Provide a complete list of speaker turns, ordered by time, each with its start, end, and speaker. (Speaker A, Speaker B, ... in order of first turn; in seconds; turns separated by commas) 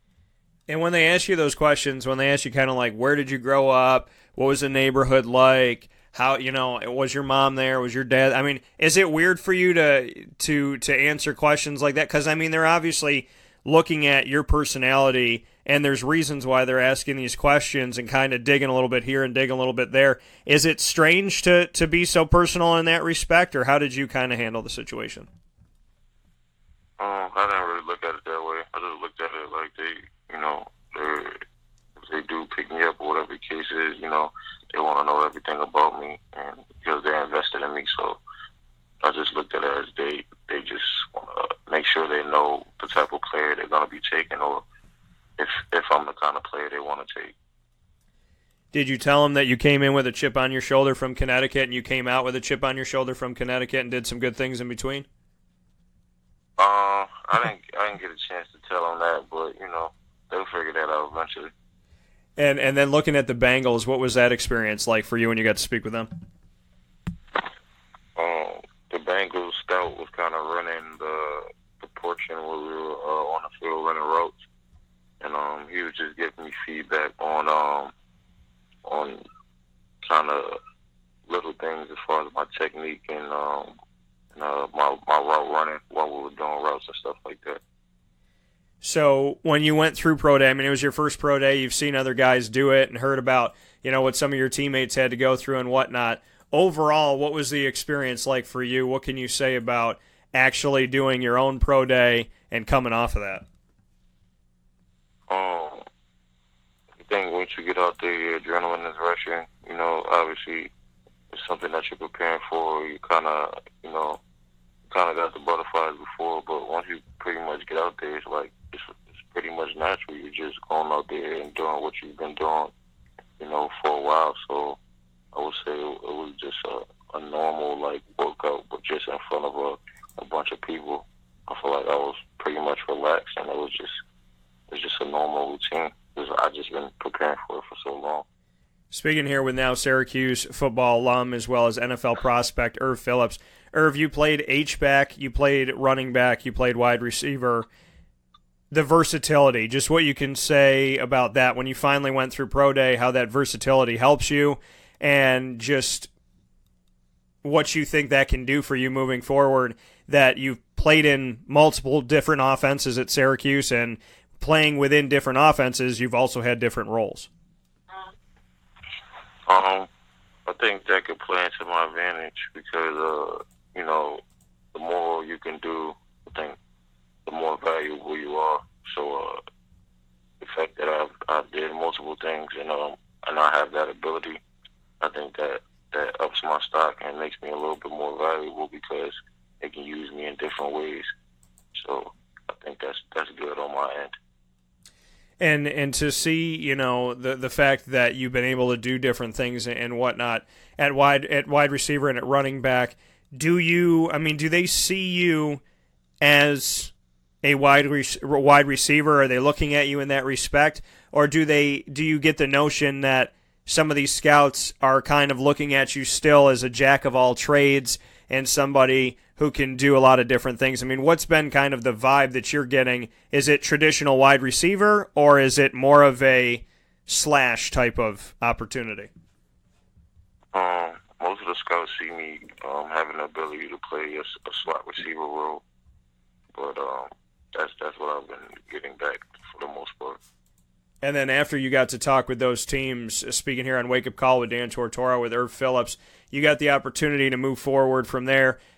Speaker A: 0.7-25.3, Speaker B: 27.0-31.4, Speaker B: 32.0-38.2, Speaker B: 39.0-44.6, Speaker B: 45.4-47.4, Speaker A: 48.7-55.1, Speaker B: 56.6-61.5, Speaker A: 62.4-66.1, Speaker B: 68.2-74.4, Speaker B: 75.2-77.9, Speaker B: 78.8-79.2, Speaker B: 80.0-80.6, Speaker B: 81.3-83.7, Speaker B: 84.3-87.6, Speaker A: 88.8-103.4, Speaker B: 105.3-105.8, Speaker B: 107.0-110.7, Speaker B: 111.3-114.2, Speaker B: 114.9-122.7, Speaker B: 123.4-124.8, Speaker B: 125.3-134.0, Speaker B: 134.7-138.3, Speaker A: 138.9-147.7, Speaker A: 148.7-156.1, Speaker A: 157.4-167.3, Speaker B: 169.5-169.9, Speaker B: 170.5-174.2, Speaker B: 174.7-176.6, Speaker B: 177.3-179.4, Speaker B: 180.4-184.4, Speaker B: 185.0-191.1, Speaker B: 191.8-194.2, Speaker A: 195.4-205.6, Speaker A: 206.2-206.9, Speaker A: 207.4-229.1, Speaker B: 230.5-235.6, Speaker B: 236.5-240.2, Speaker A: 241.0-248.6